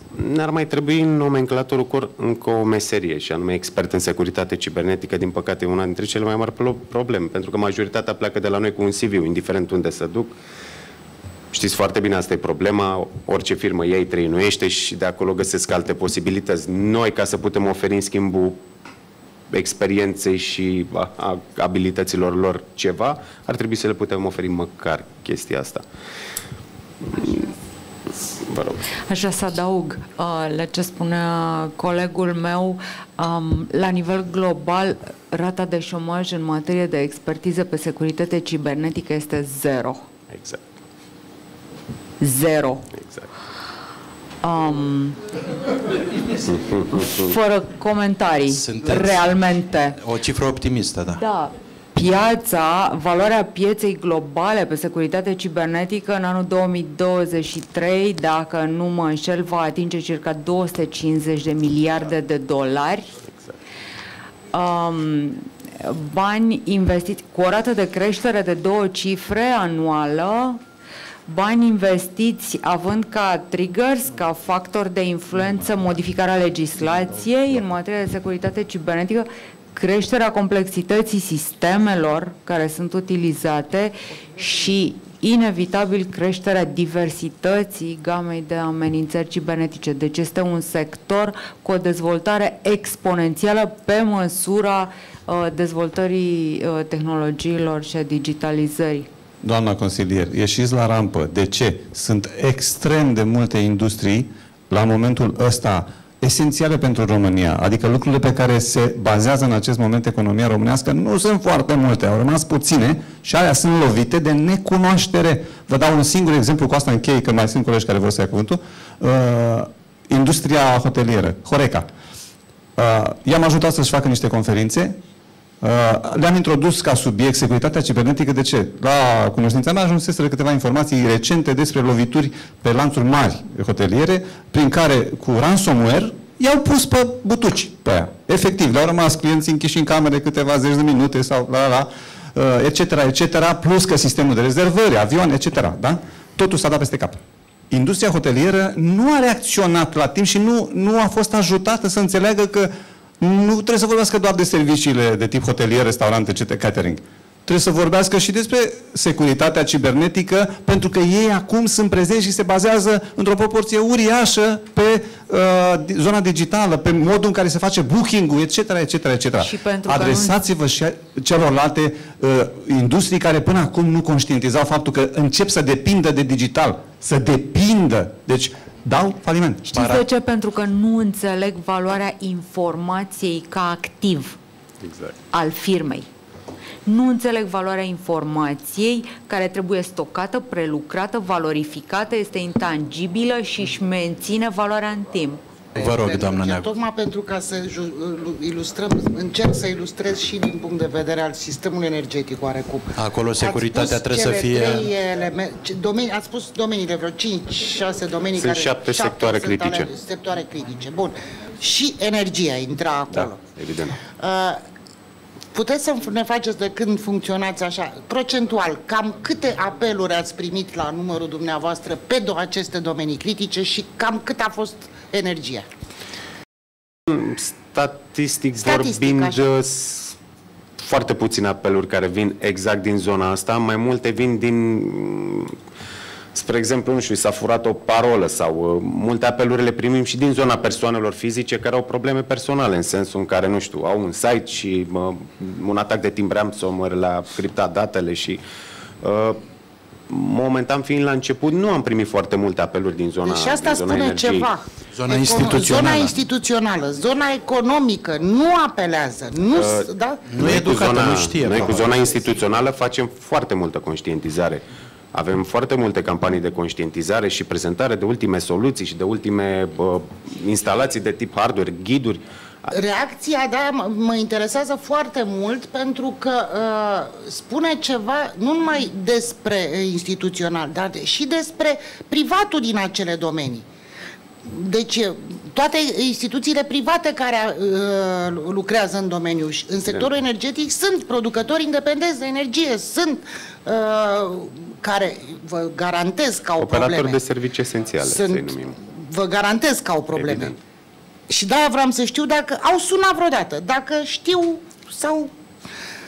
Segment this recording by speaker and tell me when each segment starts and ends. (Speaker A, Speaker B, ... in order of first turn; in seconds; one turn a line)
Speaker A: 0.1-10.3
Speaker A: 11.5-18.6
Speaker A: 19.5-25.8
Speaker A: 28.5-28.9
Speaker B: 29.1-40.0
Speaker A: 40.3-40.6
Speaker B: 42.2-42.8
Speaker A: 43.0-43.3
Speaker B: 44.4-45.2
Speaker A: 46.5-46.8
Speaker B: 46.9-50.0
Speaker C: 48.5-49.2
Speaker C: 50.0-51.2
Speaker B: 51.1-63.1
Speaker B: 64.5-70.6
Speaker B: 71.3-99.1
Speaker D: 99.4-121.9
Speaker D: 122.8-125.0
Speaker D: 125.6-147.2
Speaker D: 147.7-179.7
Speaker B: 169.4-170.3
Speaker B: 179.7-184.4
Speaker C: 179.8-180.0
Speaker A: 184.8-185.2
Speaker B: 185.3-186.1
Speaker B: 186.8-195.4
Speaker C: 195.8-196.7
Speaker E: 195.8-213.4
Speaker C: 202.9-204.9
Speaker A: 208.3-209.9
Speaker A: 213.2-214.0
Speaker E: 214.2-214.6
Speaker E: 215.5-225.7
Speaker A: 227.1-230.2
Speaker E: 228.6-229.4
Speaker A: 230.8-235.6
Speaker A: 236.3-248.4
Speaker A: 249.0-249.4
Speaker A: 250.1-254.5
Speaker E: 253.2-260.2
Speaker C: 254.9-256.1
Speaker A: 259.5-264.6
Speaker C: 260.3-261.9
Speaker A: 265.1-272.7
Speaker E: 272.7-283.7
Speaker E: 284.4-297.2
Speaker A: 296.6-298.8
Speaker E: 298.0-300.6
Speaker A: 300.1-300.6
Speaker E: 301.3-305.3